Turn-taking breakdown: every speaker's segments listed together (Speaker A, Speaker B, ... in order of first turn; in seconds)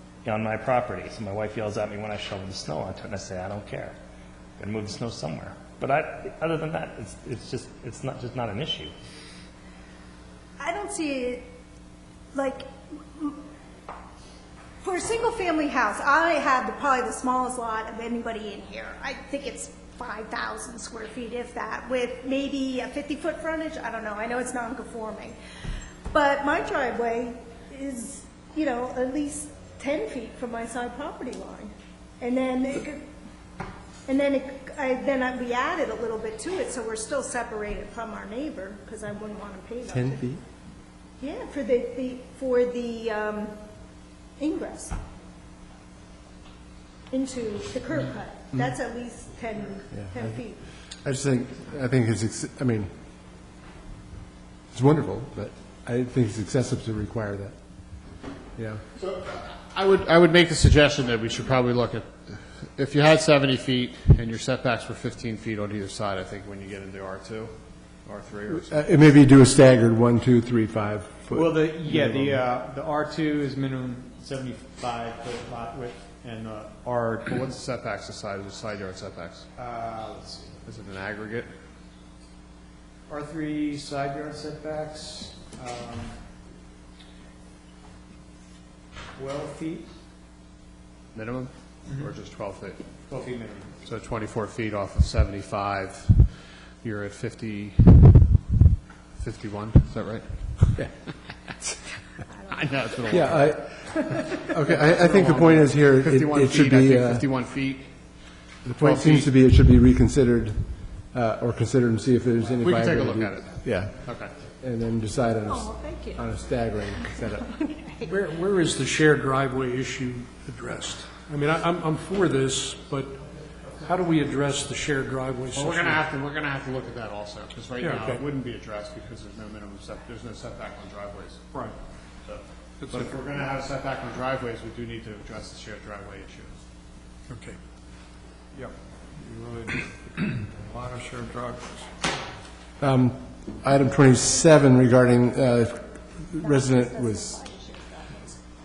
Speaker A: 0.2-3.9, 4.6-8.9
Speaker B: 10.6-11.4, 12.3-13.4, 14.8-25.4, 26.1-33.1, 34.1-40.2, 41.2-43.6, 44.4-45.0, 47.1-50.6, 115.5-116.3, 117.0-118.2, 146.4-148.4
Speaker C: 39.9-40.4, 50.0-50.4, 50.9-52.9, 54.7-57.6, 58.5-58.8, 68.5-72.4, 103.1-107.3, 108.6-114.0, 114.6-117.5, 142.8-147.4
Speaker D: 59.0-67.5, 68.0-68.8, 77.2-79.5, 80.6-81.5, 91.1-93.0, 93.8-98.4, 99.2-101.0, 102.5-108.0, 108.8-109.3, 112.6-114.3, 125.5-131.4, 132.2-136.6
Speaker E: 71.3-77.4, 79.5-80.6, 83.1-86.2, 89.1-89.9, 91.9-92.2, 93.0-93.8
Speaker F: 118.0-126.0, 127.8-128.2, 137.3-137.6
Speaker G: 132.8-133.1, 139.2-139.7, 140.6-141.9